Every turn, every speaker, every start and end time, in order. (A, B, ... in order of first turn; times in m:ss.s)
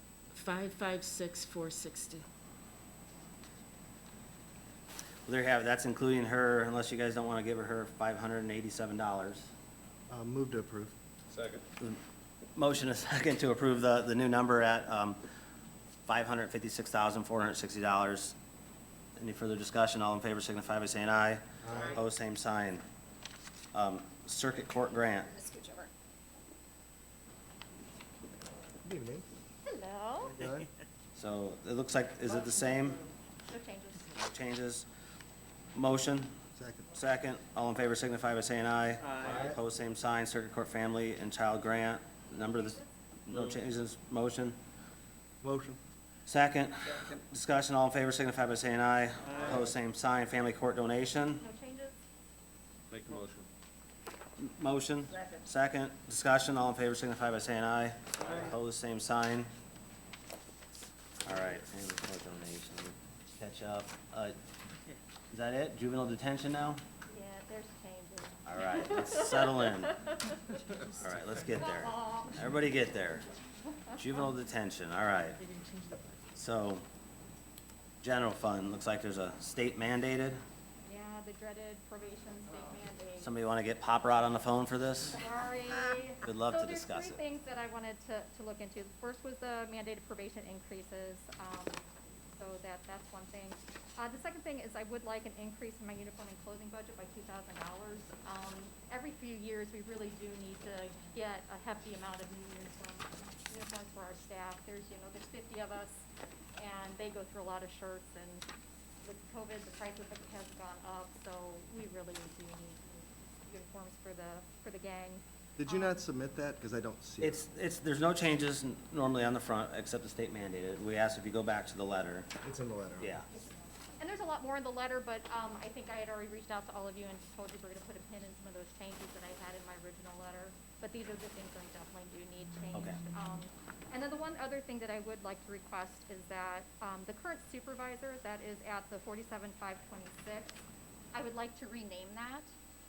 0:00.3-0:02.2 A
0:05.3-0:09.5 B
0:10.1-0:11.0 C
0:11.3-0:11.6 D
0:12.6-0:15.2 B
0:16.1-0:18.4 B
0:19.2-0:22.8 B
0:21.6-0:22.0 C
0:23.7-0:25.4 B
0:25.3-0:25.9 E
0:28.8-0:29.3 C
0:29.7-0:30.4 E
0:30.4-0:30.7 C
0:31.2-0:33.1 B
0:33.4-0:34.2 E
0:34.1-0:34.9 B
0:35.7-0:36.4 B
0:36.6-0:37.0 C
0:36.9-0:44.6 B
0:39.1-0:39.5 D
0:39.2-0:39.6 C
0:42.4-0:42.9 E
0:43.3-0:43.6 D
0:45.4-0:45.8 C
0:46.3-0:51.4 B
0:49.3-0:49.7 D
0:51.4-0:52.0 E
0:52.9-0:53.5 D
0:54.4-0:59.5 B
1:01.2-1:04.4 B
1:05.3-1:06.8 B
1:07.1-1:10.4 E
1:08.5-1:10.0 B
1:11.0-1:13.3 B
1:11.6-1:12.4 E
1:14.0-1:15.4 B
1:15.4-1:16.1 A
1:16.3-1:16.8 B
1:18.0-1:20.4 B
1:20.8-1:23.3 E
1:23.2-1:25.2 B
1:25.1-1:48.5 E
1:26.2-1:27.2 B
1:49.0-1:56.0 E
1:55.6-1:57.4 C
1:57.2-2:02.3 B
2:02.4-2:03.2 C
2:03.0-2:03.3 B
2:03.3-2:22.5 E
2:12.7-2:13.0 B